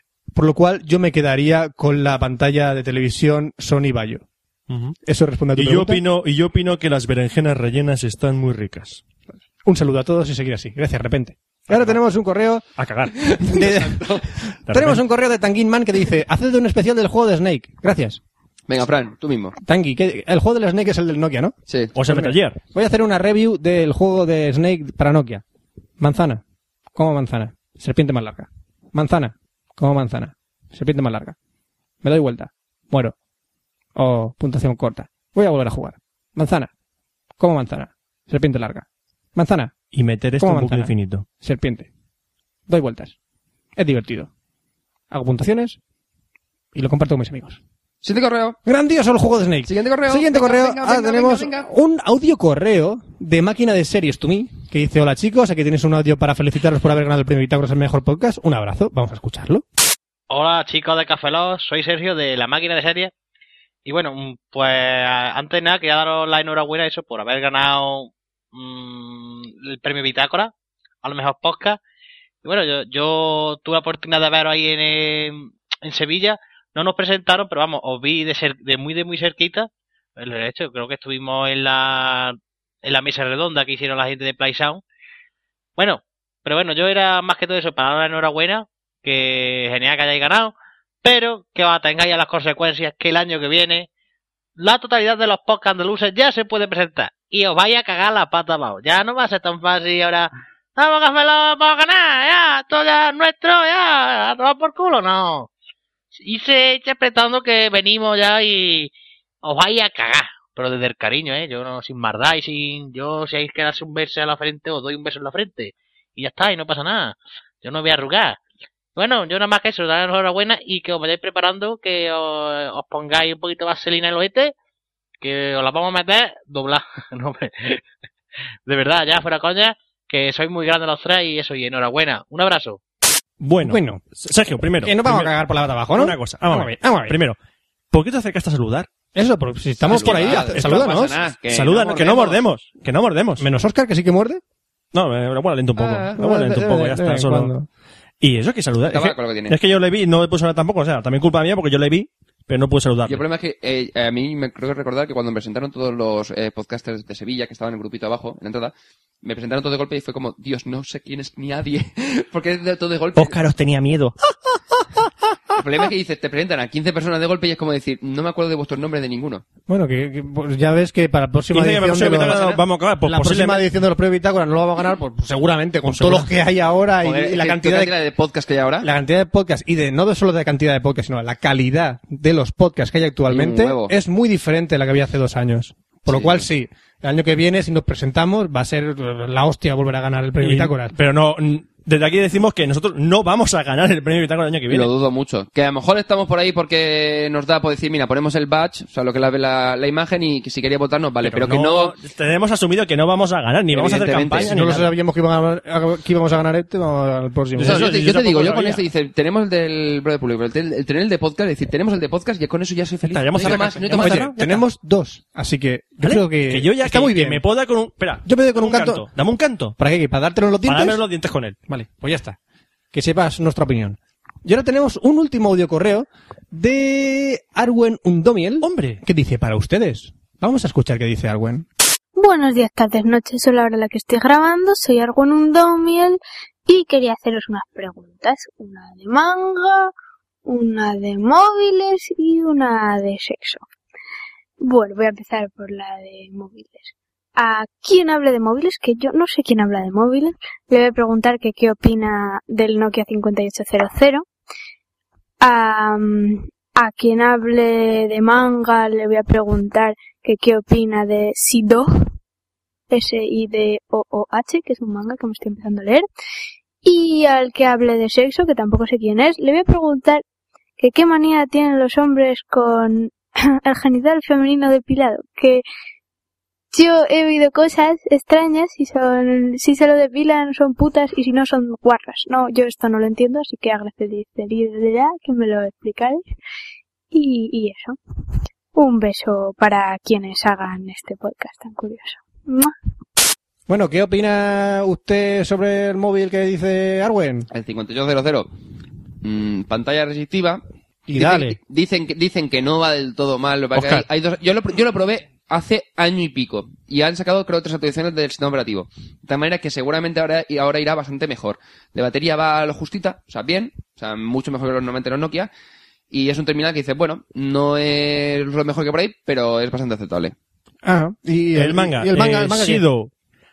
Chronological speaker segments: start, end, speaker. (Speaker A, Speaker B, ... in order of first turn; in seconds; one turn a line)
Speaker A: 0.3-4.2
Speaker B: 4.7-5.0
Speaker A: 5.0-6.0
Speaker B: 5.5-9.0
Speaker A: 9.6-12.7
Speaker B: 11.7-12.0
Speaker B: 12.8-13.8
Speaker A: 13.4-14.0
Speaker C: 13.7-14.2
Speaker A: 14.5-18.2
Speaker B: 14.7-15.0
Speaker C: 18.7-19.6
Speaker A: 19.6-21.5
Speaker C: 21.7-21.9
Speaker B: 21.9-22.6
Speaker A: 22.1-25.4
Speaker A: 26.0-26.4
Speaker A: 26.9-31.4
Speaker A: 32.0-33.1
Speaker A: 33.9-36.7
Speaker A: 37.4-39.7
Speaker B: 39.9-41.2
Speaker A: 40.4-41.9
Speaker A: 42.7-43.1
Speaker A: 43.8-44.3
Speaker A: 45.1-45.8
Speaker A: 46.7-47.6
Speaker C: 48.0-48.6
Speaker A: 48.6-59.6
Speaker C: 49.6-51.7
Speaker D: 60.3-63.1
Speaker D: 63.8-70.5
Speaker D: 71.0-71.8
Speaker D: 72.4-84.8
Speaker D: 85.8-93.9
Speaker D: 94.6-105.5
Speaker D: 106.1-108.9
Speaker D: 109.4-118.4
Speaker D: 119.0-124.5
Speaker D: 125.2-127.8
Speaker D: 128.7-132.8
Speaker B: 133.4-135.3
Speaker A: 133.6-134.0
Speaker A: 134.8-137.2
Speaker B: 135.9-137.3
Speaker B: 137.9-138.9
Speaker A: 139.1-141.2
Speaker B: 139.9-143.4
Speaker C: 139.9-142.4
Speaker A: 143.4-144.4
Speaker B: 144.9-147.5
Speaker C: 145.8-146.1
Speaker A: 146.1-147.7
Speaker B: 148.2-153.2
Speaker C: 148.8-149.6
Speaker C: 153.1-163.3
Speaker B: 163.2-164.2
Speaker C: 165.6-169.4
Speaker A: 169.7-177.9
Speaker B: 171.5-173.7
Speaker C: 172.1-172.6
Speaker B: 175.9-176.3
Speaker C: 177.0-178.9
Speaker A: 178.8-190.9
Speaker C: 183.3-183.9
Speaker C: 186.1-186.4
Speaker B: 190.4-194.9
Speaker C: 194.7-201.9
Speaker B: 201.2-204.9
Speaker C: 203.7-204.5
Speaker A: 204.4-207.8
Speaker B: 207.6-208.8
Speaker C: 207.6-214.6
Speaker B: 213.1-214.3
Speaker A: 213.4-217.4
Speaker B: 216.0-219.7
Speaker A: 218.2-219.0
Speaker A: 219.8-221.0
Speaker B: 220.7-221.6
Speaker A: 221.7-222.4
Speaker A: 222.9-231.7
Speaker B: 228.6-229.0
Speaker E: 232.2-239.9
Speaker E: 240.4-243.6
Speaker E: 244.6-254.2
Speaker E: 255.4-262.1
Speaker E: 262.9-266.0
Speaker E: 266.8-270.2
Speaker E: 270.8-275.6
Speaker E: 276.7-286.2
Speaker E: 287.1-288.0
Speaker E: 288.7-292.7
Speaker A: 293.7-297.5
Speaker C: 297.5-298.5
Speaker C: 299.2-300.6
Speaker A: 301.1-301.6
Speaker C: 301.1-315.5
Speaker B: 303.8-304.0
Speaker C: 316.1-320.3
Speaker A: 320.8-322.8
Speaker B: 321.5-323.1